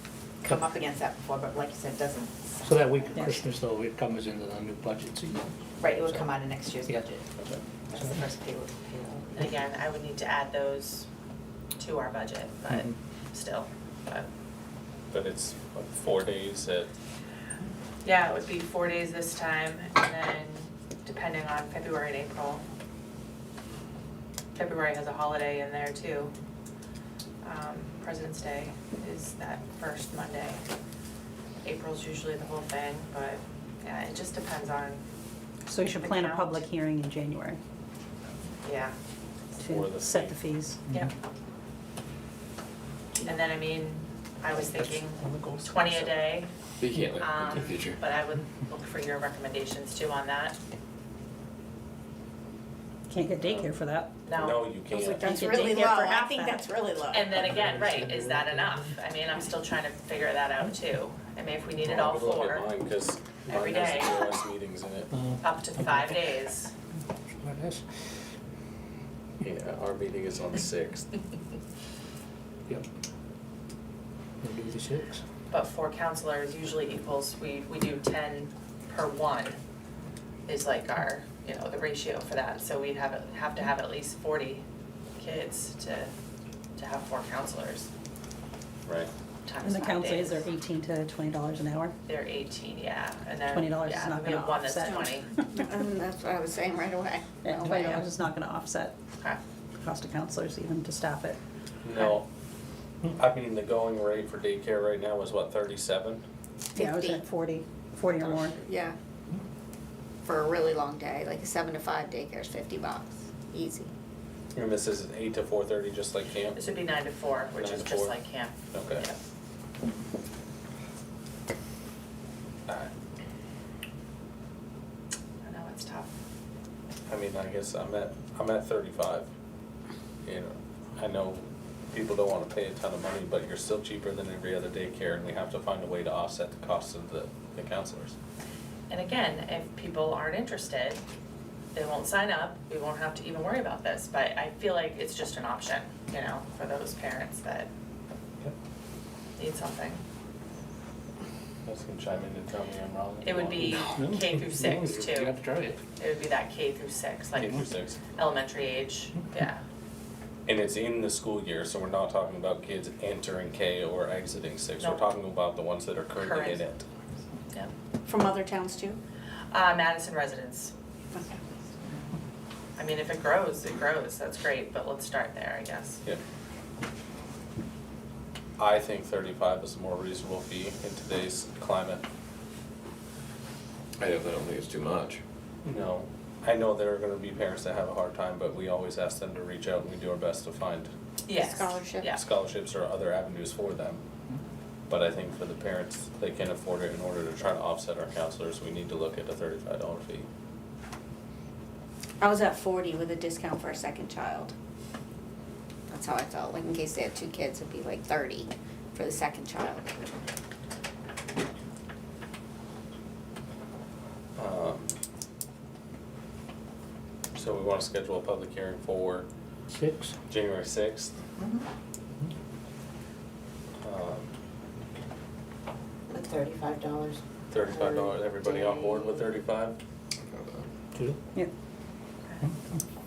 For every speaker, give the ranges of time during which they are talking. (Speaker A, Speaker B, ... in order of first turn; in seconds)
Speaker A: 0.4-3.5, 5.8-7.3, 7.9-9.3, 221.4-221.6, 226.1-229.4
Speaker B: 2.6-6.3, 57.4-58.9, 65.1-66.1, 67.4-67.8, 74.4-75.2, 153.6-155.8, 219.7-220.2
Speaker C: 9.4-11.1, 11.8-14.3, 18.0-22.6, 24.6-26.3, 27.4-30.6, 31.6-35.0, 35.9-36.6, 38.6-39.0, 43.2-46.5, 47.2-50.6, 54.3-54.8, 57.1-62.7, 63.5-64.4, 65.4-66.7, 75.5-79.6, 80.5-84.6, 85.2-86.1, 86.8-87.9, 89.5-90.5, 92.1-95.3, 116.5-119.2, 125.4-126.1, 138.9-141.0, 141.7-147.7, 149.4-150.0, 153.2-155.4, 156.0-159.6, 164.8-165.1, 166.2-166.6, 169.5-170.7, 172.8-176.0, 191.3-192.2
Speaker D: 15.1-16.9, 39.6-40.4, 44.5-46.1, 53.4-53.7, 54.3-55.5, 61.8-65.1, 69.4-71.2, 101.8-102.3, 103.1-106.2, 114.5-116.6, 117.6-118.2, 118.7-119.1, 127.1-129.3, 130.2-138.2, 151.7-153.9, 157.3-158.0, 160.5-166.8, 178.6-182.1, 185.7-190.9, 192.1-194.0, 194.9-200.3, 214.4-215.0, 217.3-219.3, 220.3-221.2, 223.8-224.3, 227.5-229.8
Speaker E: 35.7-37.6, 39.6-41.1, 53.1-54.1, 54.9-56.6, 89.6-91.9, 93.5-95.1, 97.4-98.9, 99.8-101.4, 106.8-108.6
Speaker F: 46.8-48.0, 184.0-185.2, 230.2-230.7
Speaker G: 55.0-57.3, 94.9-98.1, 106.8-107.2, 108.5-109.0, 110.3-113.9, 168.1-169.0, 191.4-192.1, 202.2-204.5, 205.9-210.2